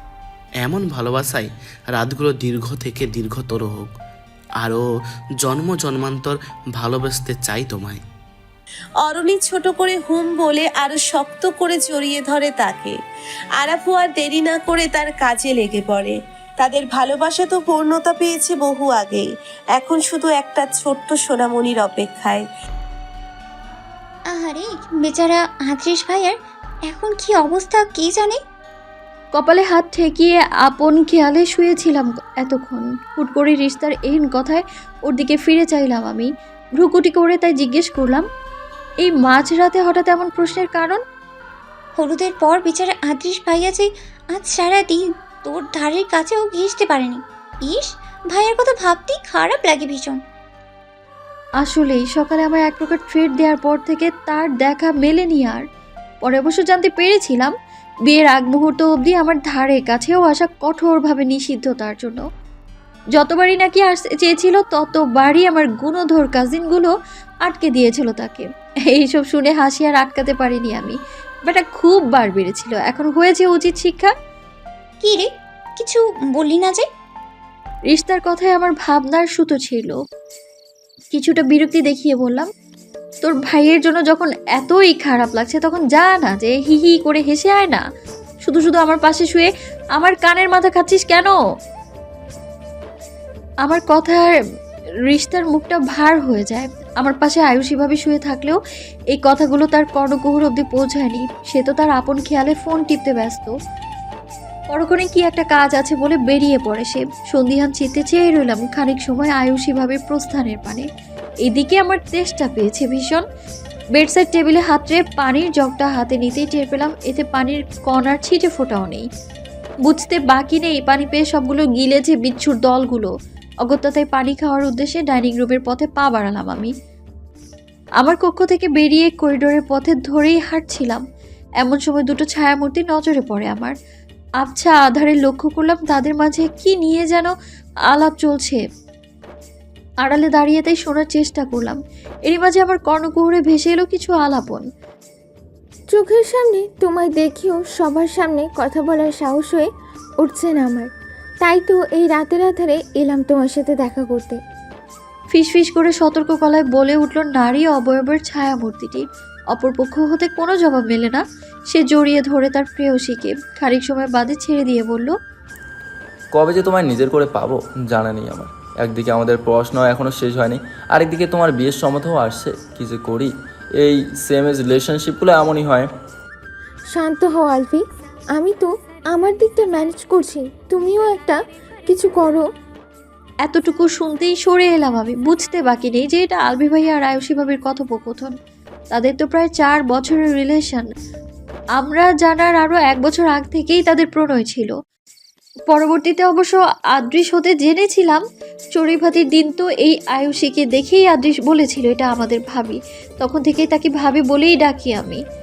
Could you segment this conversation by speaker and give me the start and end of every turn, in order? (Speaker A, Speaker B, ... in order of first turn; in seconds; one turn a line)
Speaker A: 0.6-3.9
Speaker A: 4.6-4.8
Speaker A: 5.4-8.0
Speaker B: 9.0-12.9
Speaker B: 13.6-22.4
Speaker C: 24.3-26.4
Speaker C: 26.9-28.4
Speaker D: 29.3-38.2
Speaker D: 39.0-41.0
Speaker C: 42.0-50.2
Speaker D: 51.6-55.6
Speaker D: 56.2-57.5
Speaker D: 58.1-62.2
Speaker D: 63.1-66.9
Speaker D: 67.4-74.1
Speaker C: 75.0-76.8
Speaker D: 77.9-80.0
Speaker D: 81.1-82.5
Speaker D: 83.2-87.8
Speaker D: 88.4-91.3
Speaker D: 93.6-94.3
Speaker D: 95.1-98.6
Speaker D: 99.1-103.5
Speaker D: 104.7-110.8
Speaker D: 111.4-113.2
Speaker D: 114.0-119.1
Speaker D: 119.8-123.1
Speaker D: 123.6-126.7
Speaker D: 128.0-131.0
Speaker D: 131.6-133.7
Speaker D: 134.4-137.3
Speaker D: 137.9-138.6
Speaker D: 140.0-144.6
Speaker E: 145.9-149.7
Speaker E: 150.2-150.9
Speaker E: 151.4-154.4
Speaker D: 155.3-165.1
Speaker F: 166.3-173.3
Speaker F: 173.8-175.9
Speaker E: 176.9-182.5
Speaker D: 183.4-188.3
Speaker D: 188.9-190.9
Speaker D: 191.8-194.7
Speaker D: 195.7-198.2
Speaker D: 198.7-205.2